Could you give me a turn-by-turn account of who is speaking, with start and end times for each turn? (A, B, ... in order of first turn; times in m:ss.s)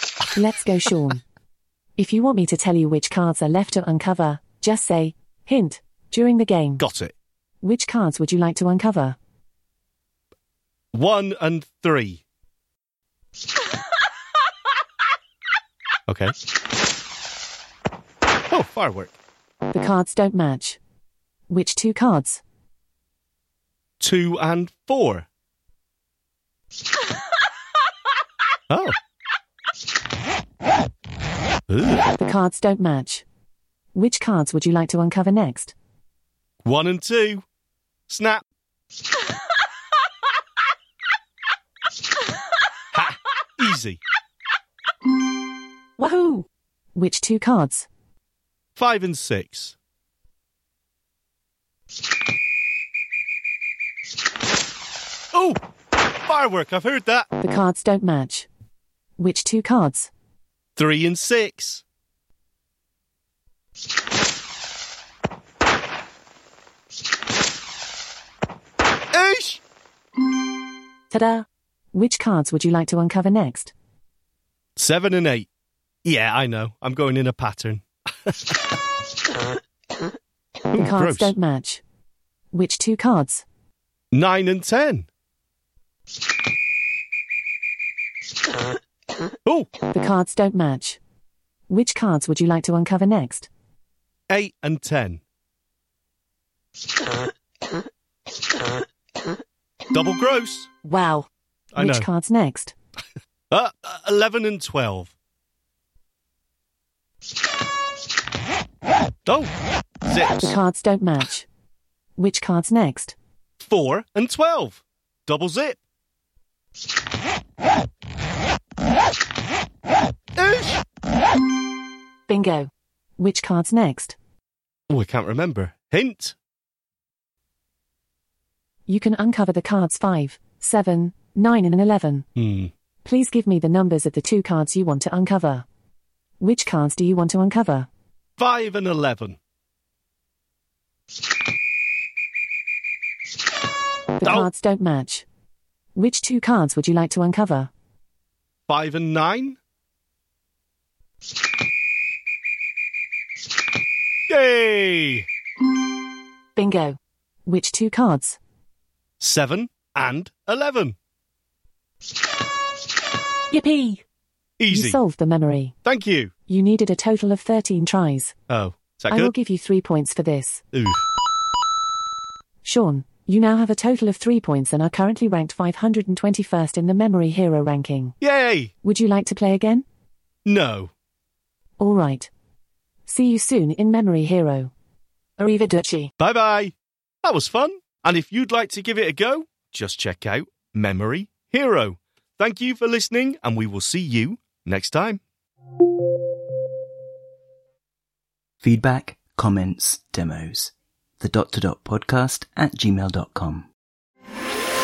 0:00.4-0:01.2 A
0:02.0-0:06.9 A
0:06.8-0:07.1 B
0:07.6-0:09.2 A
0:10.9-0:12.2 B
0:16.1-0:16.4 B
0:18.5-0:19.1 B
0:19.7-0:20.8 A
0:21.5-0:22.4 A
0:24.0-0:25.3 B
0:28.7-0:29.0 B
0:31.7-0:32.1 B
0:32.2-0:33.2 A
0:34.0-0:35.8 A
0:36.6-0:37.4 B
0:38.1-0:38.4 B
0:42.9-0:44.0 B
0:46.0-0:47.9 A
0:48.8-0:49.8 B
0:55.3-0:55.6 B
0:56.3-0:57.3 B
0:57.4-0:58.5 A
0:59.2-1:00.1 A
1:00.8-1:01.8 B
1:09.1-1:09.6 B
1:11.1-1:13.7 A
1:14.8-1:15.5 B
1:16.0-1:18.6 B
1:20.7-1:21.3 B
1:20.7-1:21.8 A
1:22.5-1:23.4 A
1:24.1-1:25.1 B
1:29.9-1:31.0 A
1:31.7-1:33.5 A
1:34.3-1:35.2 B
1:39.9-1:40.7 B
1:40.8-1:42.7 A
1:41.7-1:42.1 B
1:43.5-1:45.1 B
1:49.3-1:49.5 B
1:50.0-1:50.6 B
1:50.4-1:51.5 A
1:52.2-1:53.2 A
1:53.6-1:55.8 B
2:00.4-2:00.8 B
2:02.3-2:04.2 A
2:04.9-2:06.4 B
2:08.9-2:12.3 A
2:12.4-2:12.7 B
2:13.0-2:15.7 A
2:16.4-2:17.9 A
2:18.4-2:19.4 B
2:24.2-2:25.3 A
2:26.0-2:27.7 A
2:28.7-2:29.6 B
2:34.3-2:35.3 B
2:36.6-2:38.4 A
2:39.2-2:41.0 B
2:43.5-2:44.0 A
2:44.6-2:45.0 B
2:44.7-2:45.8 A
2:45.8-2:46.3 B
2:46.5-2:48.4 A
2:48.5-2:49.3 B
2:49.1-2:50.6 A
2:50.7-2:51.0 B
2:52.6-2:58.2 A
2:58.2-2:58.7 B
2:58.8-2:59.8 A
3:00.5-3:00.9 B
3:01.8-3:02.3 A
3:03.1-3:04.7 A
3:05.4-3:06.1 A
3:06.2-3:15.2 B
3:18.6-3:23.7 C